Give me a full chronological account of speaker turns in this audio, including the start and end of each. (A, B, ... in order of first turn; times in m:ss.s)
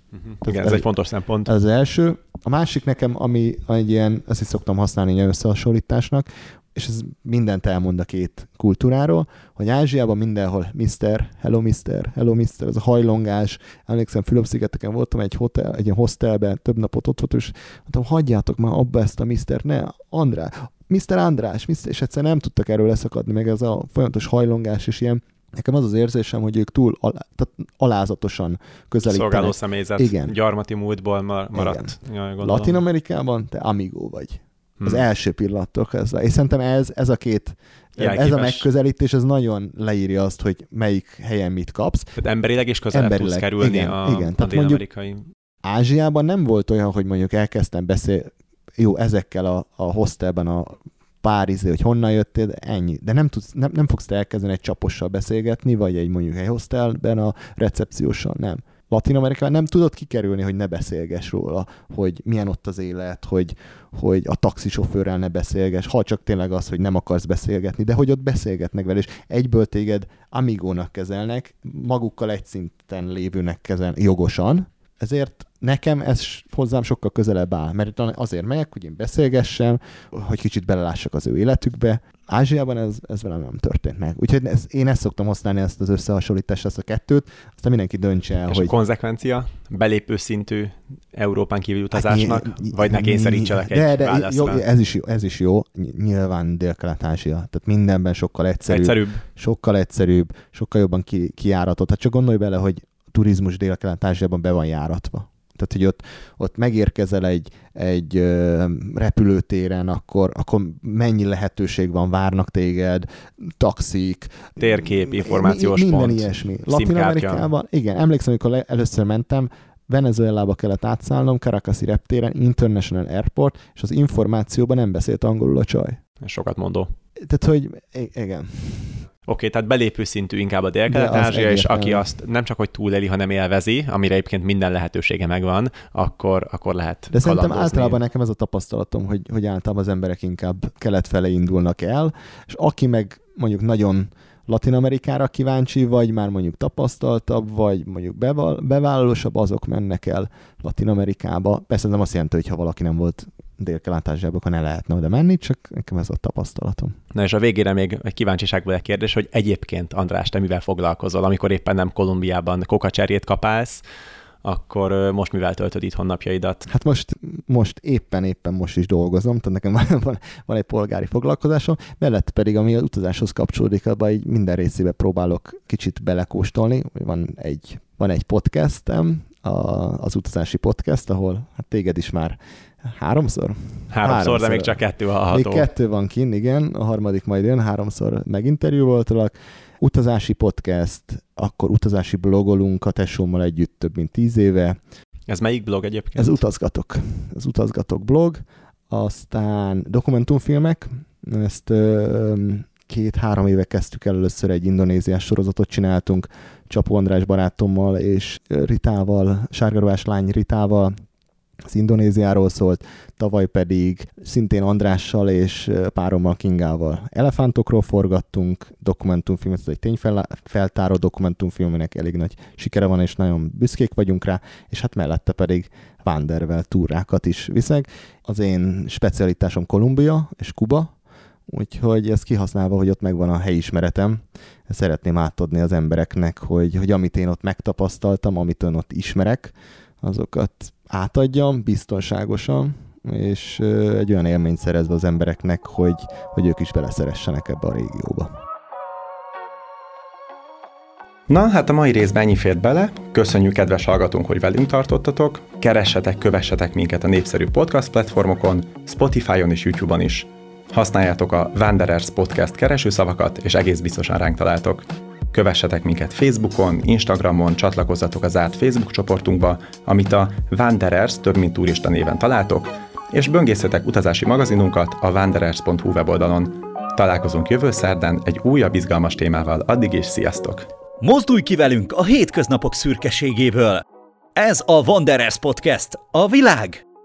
0:00.3-0:01.5 A
0:00.4-0:00.9 B
0:01.4-0:30.3 B
0:29.0-0:32.8 A
0:31.5-0:42.1 B
0:38.0-0:38.7 A
0:42.2-0:45.3 A
0:42.9-0:44.8 B
0:45.6-1:28.7 B
1:28.5-1:34.6 A
1:31.9-2:06.0 B
1:38.7-1:39.2 A
1:54.6-1:57.5 A
2:06.2-2:06.9 A
2:07.2-2:09.0 B
2:09.3-2:18.0 A
2:10.9-2:12.1 B
2:17.1-2:37.0 B
2:37.1-2:43.8 A
2:44.4-2:46.7 A
2:46.7-3:14.8 B
3:03.9-3:05.7 A
3:15.3-3:16.4 A
3:16.2-3:30.9 B
3:31.6-3:50.9 B
3:51.5-4:08.3 B
4:11.3-4:40.6 C
4:41.0-4:43.8 D
4:44.4-4:46.8 D